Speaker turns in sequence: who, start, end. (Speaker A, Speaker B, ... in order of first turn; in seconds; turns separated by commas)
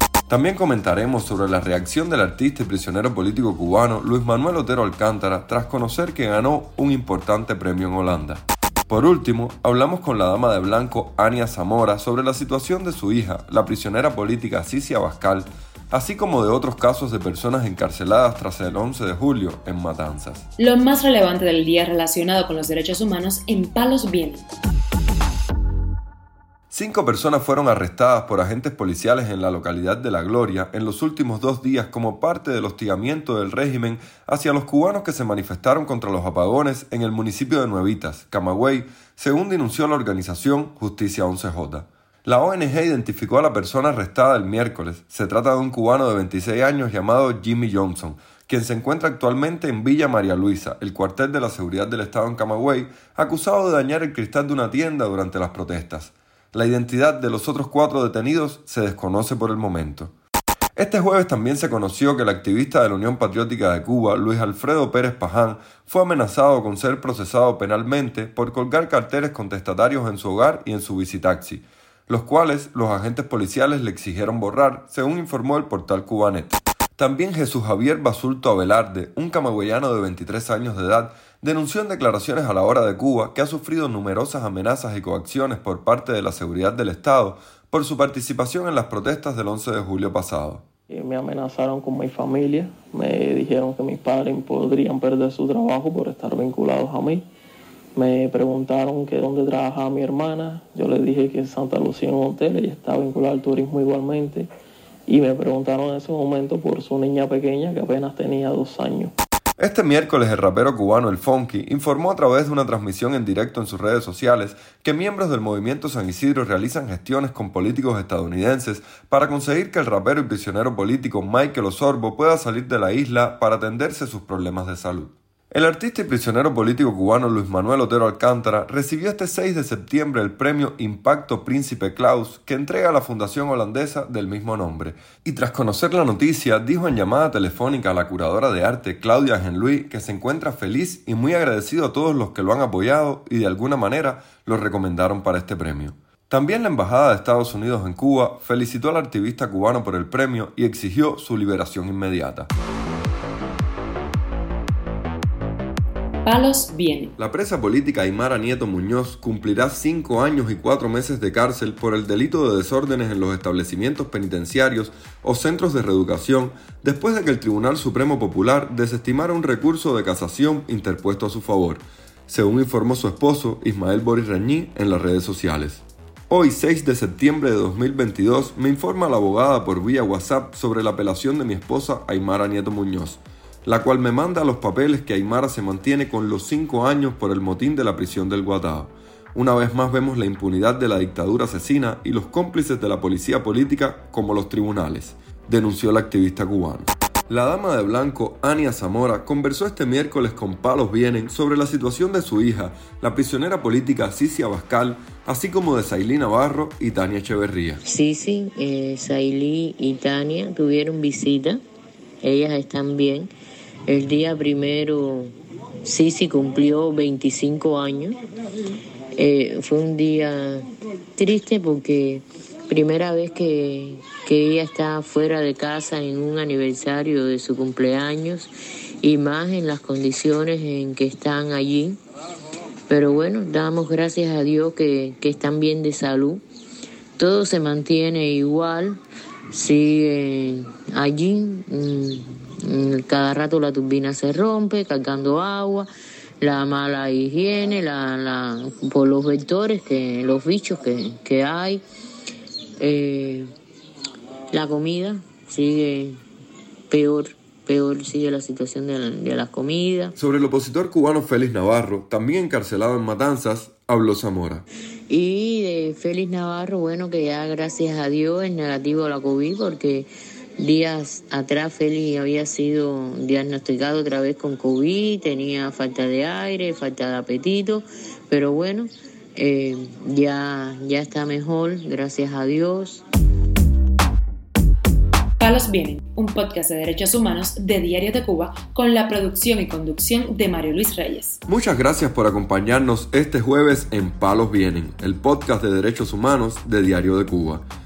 Speaker A: 0.3-8.2, Speaker A: 8.9-20.4, Speaker B: 20.6-24.4, Speaker A: 26.7-59.8, Speaker A: 60.9-90.6, Speaker C: 90.9-97.2, Speaker C: 98.0-104.5, Speaker C: 105.1-109.1, Speaker A: 109.6-125.0, Speaker A: 125.6-152.5, Speaker B: 156.2-157.1, Speaker A: 157.3-175.8, Speaker A: 176.3-207.8, Speaker D: 207.8-211.6, Speaker D: 212.2-213.3, Speaker D: 213.8-218.2, Speaker D: 219.2-220.6, Speaker D: 221.2-232.0, Speaker D: 232.9-236.4, Speaker D: 237.2-239.0, Speaker D: 239.5-251.8, Speaker D: 252.8-253.5, Speaker D: 254.5-256.2, Speaker D: 256.9-260.1, Speaker A: 260.2-264.6, Speaker D: 265.1-283.0, Speaker B: 285.4-291.4, Speaker A: 291.5-297.6